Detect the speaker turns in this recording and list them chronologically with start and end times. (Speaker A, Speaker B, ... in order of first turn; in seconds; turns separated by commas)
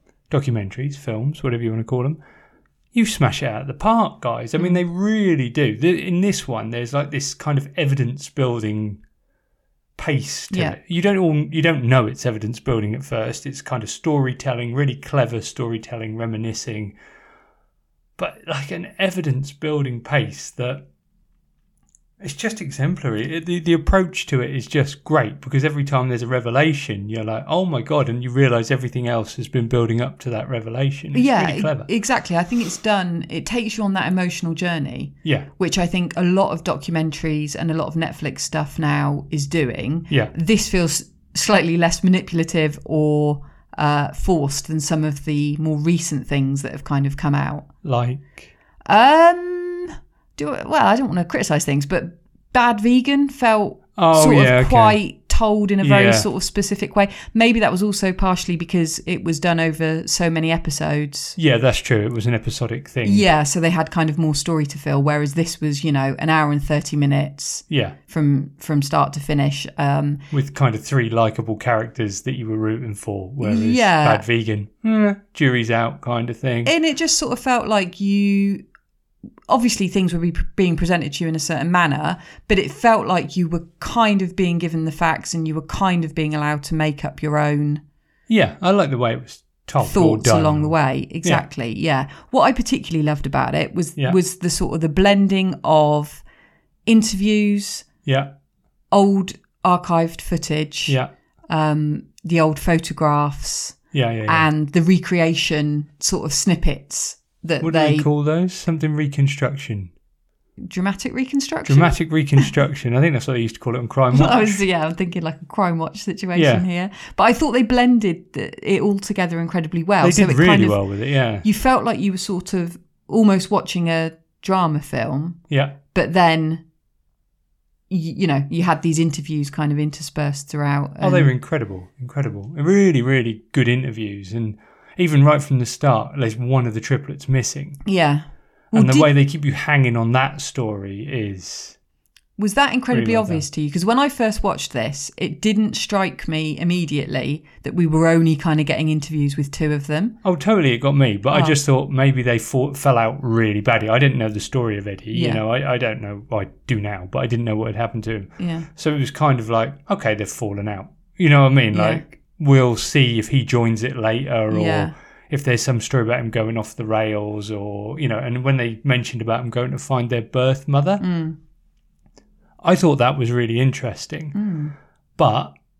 Speaker A: 0.3-2.2, Speaker A: 2.9-9.0, Speaker A: 10.0-16.9, Speaker B: 10.5-10.8, Speaker A: 18.2-20.8, Speaker A: 22.2-31.9, Speaker B: 31.1-47.7, Speaker A: 47.8-48.5, Speaker B: 48.9-61.4, Speaker A: 54.0-55.0, Speaker A: 55.8-56.3, Speaker A: 61.4-63.2, Speaker B: 63.0-70.2, Speaker A: 67.7-68.0, Speaker A: 70.3-76.7, Speaker B: 73.4-74.2, Speaker B: 76.6-78.6, Speaker B: 79.5-87.8, Speaker A: 88.3-91.4, Speaker B: 89.8-96.2, Speaker B: 96.8-97.8, Speaker A: 98.0-98.3, Speaker B: 98.9-101.0, Speaker B: 101.5-108.1, Speaker A: 103.9-104.5, Speaker A: 107.6-109.9, Speaker B: 110.6-112.5, Speaker A: 111.6-114.6, Speaker B: 114.1-120.8, Speaker A: 116.3-116.6, Speaker A: 120.0-121.4, Speaker B: 121.4-125.4, Speaker A: 125.5-125.8, Speaker B: 125.9-126.6, Speaker B: 127.9-131.3, Speaker A: 131.0-137.8, Speaker B: 137.8-139.1, Speaker A: 138.7-141.8, Speaker B: 142.4-150.2, Speaker A: 142.9-143.4, Speaker A: 150.2-171.0, Speaker B: 151.3-151.6, Speaker B: 155.1-155.4, Speaker B: 158.4-158.7, Speaker B: 161.7-162.0, Speaker B: 164.5-164.9, Speaker B: 171.0-171.4, Speaker A: 172.6-174.3, Speaker B: 174.3-174.7, Speaker A: 175.2-175.5